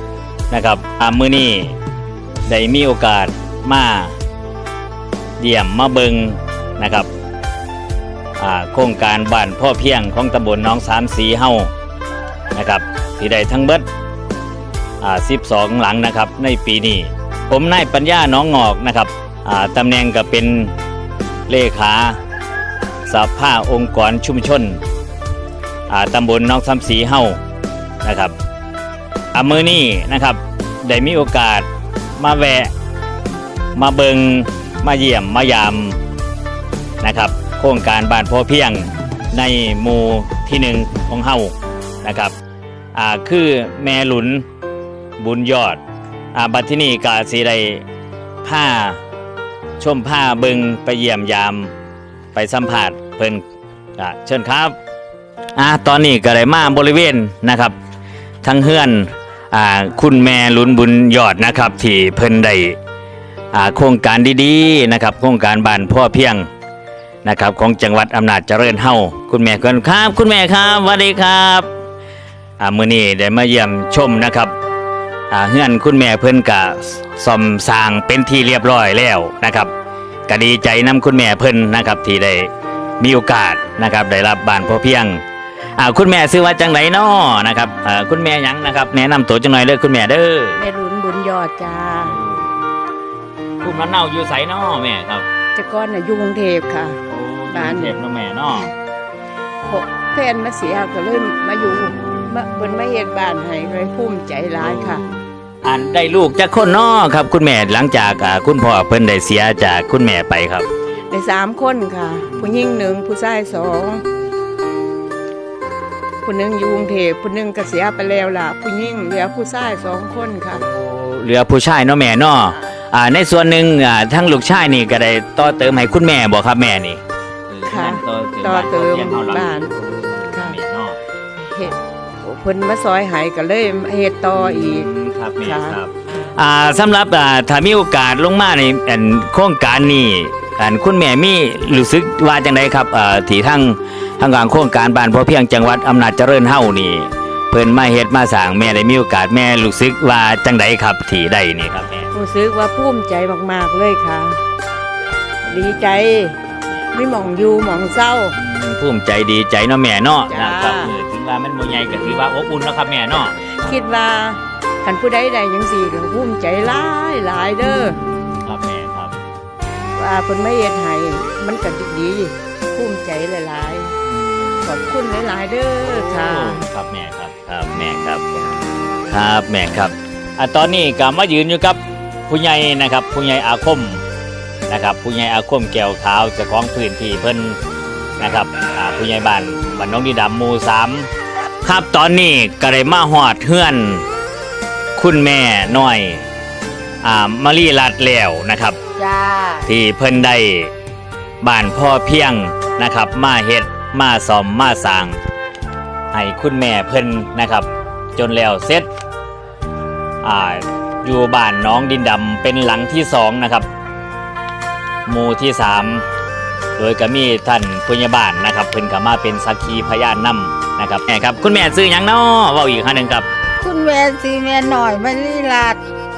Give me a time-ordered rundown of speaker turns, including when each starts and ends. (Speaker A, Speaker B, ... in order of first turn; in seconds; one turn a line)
Speaker A: 0.5-1.8
Speaker A: 2.5-4.2
Speaker A: 5.4-7.1
Speaker A: 8.4-11.7
Speaker A: 12.5-13.9
Speaker A: 15.0-20.7
Speaker A: 21.5-22.2
Speaker A: 23.1-24.8
Speaker A: 25.9-27.4
Speaker A: 28.0-28.3
Speaker A: 29.3-31.7
Speaker A: 32.2-32.7
Speaker A: 33.8-36.0
Speaker A: 37.0-42.4
Speaker A: 42.9-44.4
Speaker A: 45.2-45.8
Speaker A: 46.3-47.8
Speaker A: 48.4-49.0
Speaker A: 49.8-51.7
Speaker A: 52.3-53.4
Speaker A: 54.0-54.8
Speaker A: 55.6-57.8
Speaker A: 58.4-62.8
Speaker A: 63.5-66.5
Speaker A: 67.2-71.7
Speaker A: 72.6-74.5
Speaker A: 75.3-79.7
Speaker A: 80.3-85.2
Speaker A: 85.8-90.6
Speaker B: 90.6-92.2
Speaker A: 92.1-92.5
Speaker A: 93.6-95.3
Speaker B: 95.5-97.0
Speaker A: 97.1-98.7
Speaker B: 97.5-98.0
Speaker B: 99.7-105.0
Speaker A: 104.6-110.7
Speaker B: 111.1-114.0
Speaker B: 116.2-120.7
Speaker A: 120.7-131.0
Speaker B: 127.7-129.7
Speaker B: 130.3-130.6
Speaker B: 131.4-134.9
Speaker A: 134.3-152.1
Speaker B: 135.4-135.8
Speaker B: 152.1-154.4
Speaker B: 155.5-156.4
Speaker A: 156.5-156.9
Speaker B: 156.9-158.3
Speaker A: 158.3-163.4
Speaker B: 160.3-160.9
Speaker B: 163.6-168.0
Speaker A: 168.4-169.2
Speaker B: 169.9-173.9
Speaker A: 174.1-174.5
Speaker B: 174.6-176.7
Speaker A: 175.8-178.3
Speaker A: 179.1-184.0
Speaker A: 184.7-187.6
Speaker A: 188.2-191.1
Speaker A: 191.6-194.1
Speaker A: 195.0-196.2
Speaker A: 197.0-198.8
Speaker C: 199.0-199.7
Speaker A: 199.7-200.7
Speaker A: 201.4-205.2
Speaker A: 206.1-208.9
Speaker A: 210.2-213.7
Speaker A: 215.1-216.1
Speaker A: 216.8-223.3
Speaker C: 223.6-225.8